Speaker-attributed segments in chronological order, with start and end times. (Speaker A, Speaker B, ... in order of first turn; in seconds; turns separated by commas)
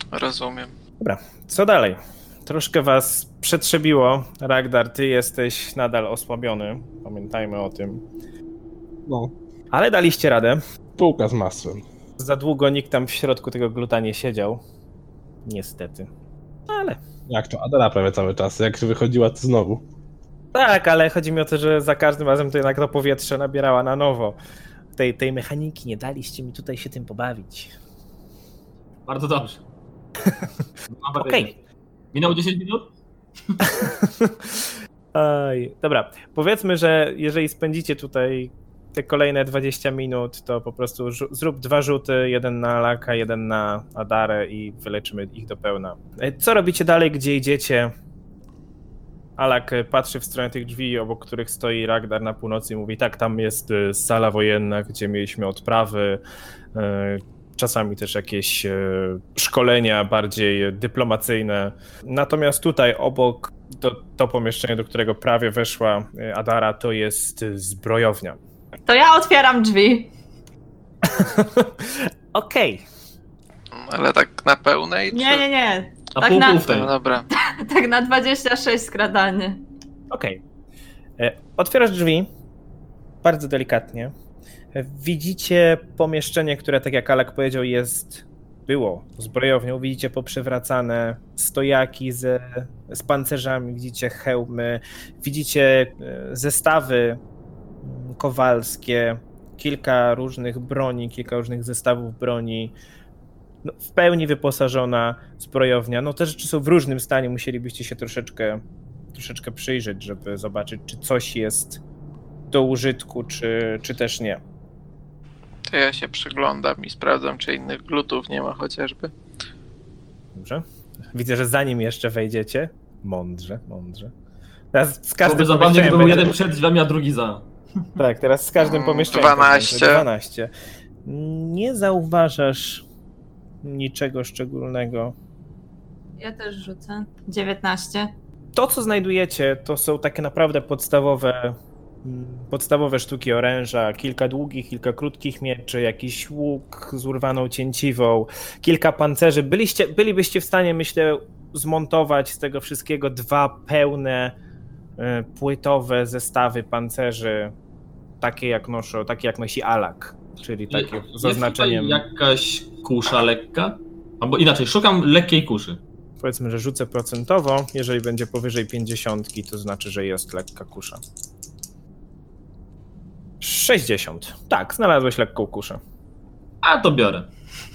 Speaker A: 0.1-0.7, Speaker B: 1.0-8.0, Speaker C: 9.1-9.3, Speaker B: 9.7-10.6, Speaker C: 11.0-11.8, Speaker B: 12.2-14.6, Speaker B: 15.4-16.1, Speaker B: 16.7-17.0, Speaker C: 17.3-19.8, Speaker B: 20.5-24.4, Speaker B: 24.9-27.7, Speaker D: 29.1-29.6, Speaker D: 30.9-31.6, Speaker B: 31.1-31.5, Speaker D: 32.1-32.9, Speaker B: 33.6-47.9, Speaker B: 49.4-56.2, Speaker B: 56.7-68.4, Speaker E: 68.8-70.1, Speaker B: 71.0-72.8, Speaker A: 73.7-75.4, Speaker E: 75.1-76.7, Speaker D: 76.2-76.9, Speaker A: 76.7-77.3, Speaker E: 77.3-79.6, Speaker B: 80.1-80.4, Speaker B: 81.2-82.3, Speaker B: 83.2-84.1, Speaker B: 84.7-97.2, Speaker B: 97.8-102.7, Speaker B: 103.6-108.6, Speaker B: 109.1-111.8, Speaker B: 112.5-114.4, Speaker A: 115.7-119.1, Speaker B: 120.3-124.1, Speaker B: 124.7-126.4, Speaker D: 125.2-127.5, Speaker B: 128.0-130.5, Speaker A: 128.6-130.1, Speaker B: 131.1-132.8, Speaker B: 133.6-135.1, Speaker E: 136.2-138.1, Speaker B: 138.5-154.3, Speaker B: 155.0-157.5, Speaker B: 158.2-162.0, Speaker D: 160.7-165.8, Speaker B: 166.2-171.0, Speaker B: 173.4-175.8, Speaker D: 176.6-177.3